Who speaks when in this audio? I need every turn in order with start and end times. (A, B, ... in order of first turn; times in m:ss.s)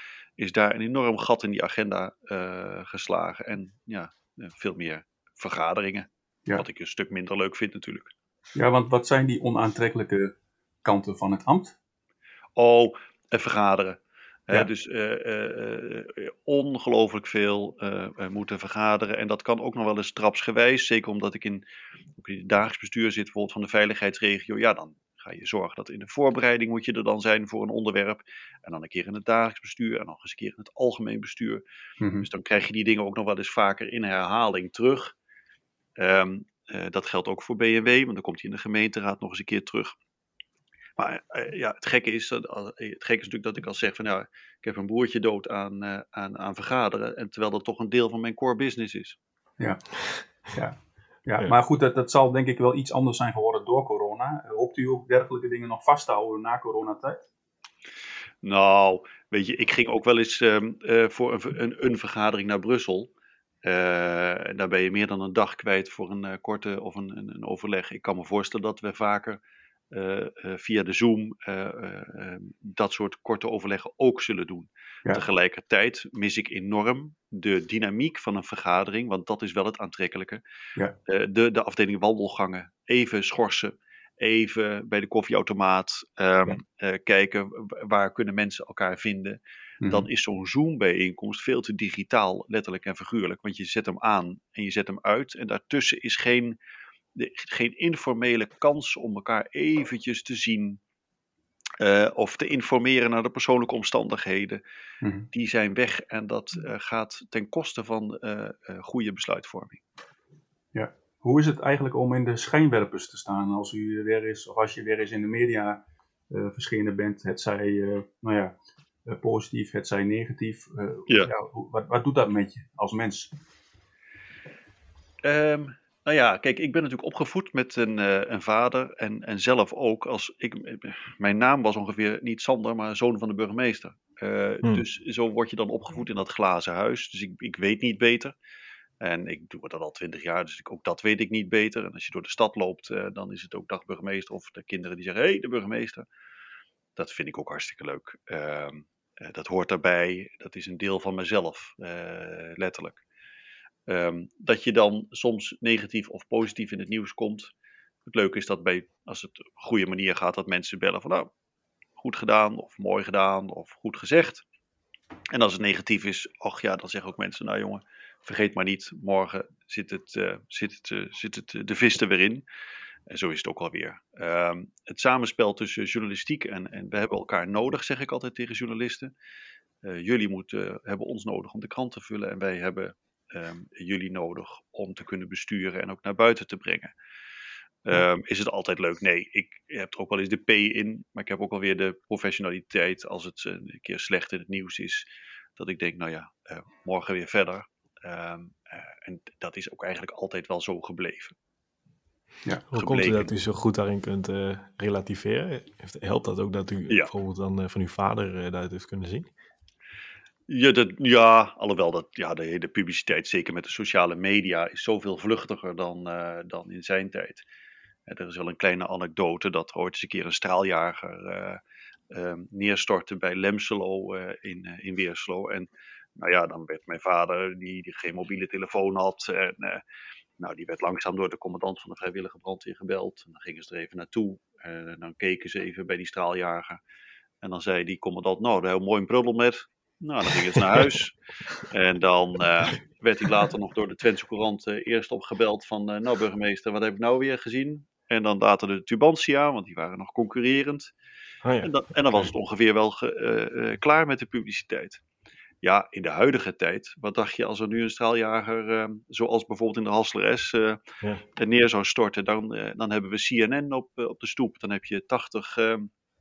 0:00.4-0:08.1 A
0:08.5-0:11.8 B
0:12.6-0:21.6 A
0:22.2-0:31.6 A
0:32.0-0:32.3 B
0:32.2-0:35.1 A
0:36.0-0:39.9 A
0:41.0-0:49.2 A
0:49.6-0:49.8 B
0:50.5-0:57.3 B
0:58.4-1:03.1 A
1:03.6-1:09.4 A
1:09.9-1:20.4 A
1:21.1-1:36.6 A
1:29.8-1:30.1 B
1:37.2-1:40.8 A
1:41.8-1:44.6 A
1:45.0-1:45.3 B
1:45.3-1:49.8 A
1:50.7-2:03.3 B
2:05.2-2:18.4 A
2:19.0-2:26.0 A
2:27.0-2:33.0 A
2:33.9-2:37.5 A
2:38.0-2:41.3 A
2:42.0-2:44.4 A
2:45.3-2:52.4 A
2:53.1-2:59.1 A
2:59.8-3:06.9 A
3:07.8-3:21.4 A
3:22.7-3:29.3 C
3:22.7-3:23.3 A
3:30.5-3:37.4 A
3:38.1-3:45.7 A
3:46.2-3:49.8 A
3:50.4-3:56.8 A
3:57.4-4:01.2 A
4:01.7-4:10.9 A
4:11.4-4:12.3 C
4:11.6-4:15.0 A
4:15.6-4:20.8 A
4:21.4-4:25.9 A